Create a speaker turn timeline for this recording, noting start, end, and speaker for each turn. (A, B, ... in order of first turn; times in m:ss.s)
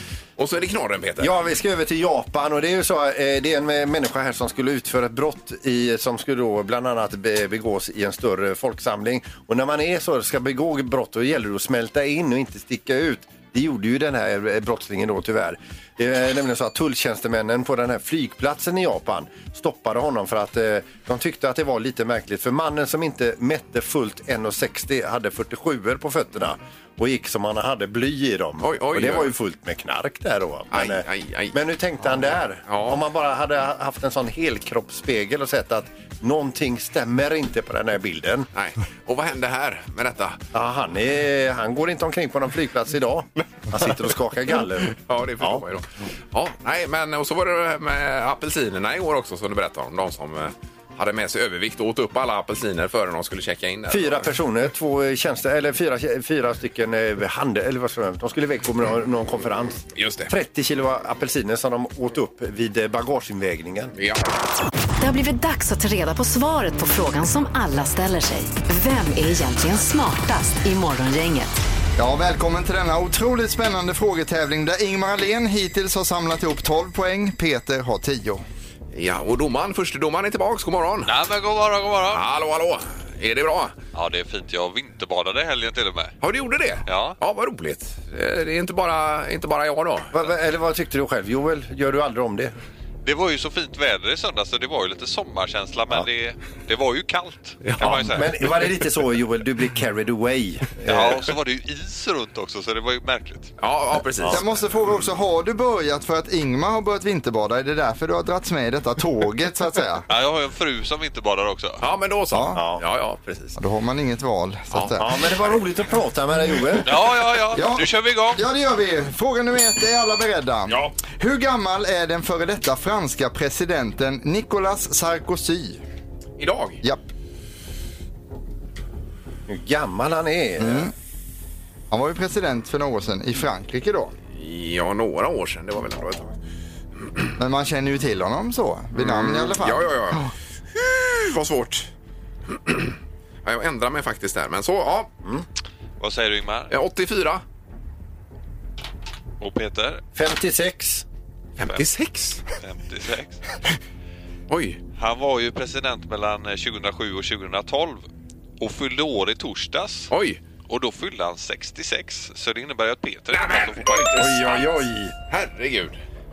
0:00.4-0:01.4 A
0:01.2-0:38.5 B
0:28.6-0:29.3 A
0:30.7-0:31.6 A
0:32.7-0:33.0 A
0:38.6-0:40.4 A
0:40.5-0:45.6 B
0:44.9-0:54.3 A
0:53.9-1:03.9 B
1:00.0-1:00.3 A
1:04.0-1:04.3 A
1:05.0-1:11.6 C
1:12.0-1:18.4 D
1:18.9-1:21.1 A
1:21.1-1:22.2 E
1:22.1-1:23.8 A
1:23.9-1:26.2 E
1:26.2-1:30.1 A
1:26.9-1:27.2 E
1:30.1-1:32.5 B
1:33.0-1:38.5 E
1:37.6-1:38.0 A
1:37.8-1:41.2 B
1:40.8-1:43.5 E
1:43.6-1:44.4 A
1:44.3-1:50.1 D
1:50.1-1:51.8 E
1:51.8-1:53.6 A
1:52.3-1:52.6 D
1:52.6-1:52.8 B
1:53.6-1:55.1 D
1:55.0-1:56.9 B
1:56.9-1:58.4 E
1:57.5-2:05.8 D
2:00.7-2:00.9 A
2:06.4-2:06.8 A
2:09.5-2:10.9 B
2:10.6-2:10.9 D
2:11.9-2:14.1 D
2:14.3-2:16.4 A
2:17.4-2:20.3 D
2:19.0-2:21.9 A
2:22.5-2:25.1 A
2:26.0-2:26.7 E
2:26.7-2:27.4 A
2:29.4-2:30.0 E
2:30.2-2:31.0 B
2:31.6-2:32.4 A
2:32.6-2:33.4 E
2:34.5-2:34.8 A
2:35.0-2:38.1 E
2:38.6-2:40.1 E
2:40.1-2:40.4 A
2:40.7-2:44.4 E
2:43.3-2:44.7 A
2:44.2-2:45.1 B
2:45.3-2:46.0 A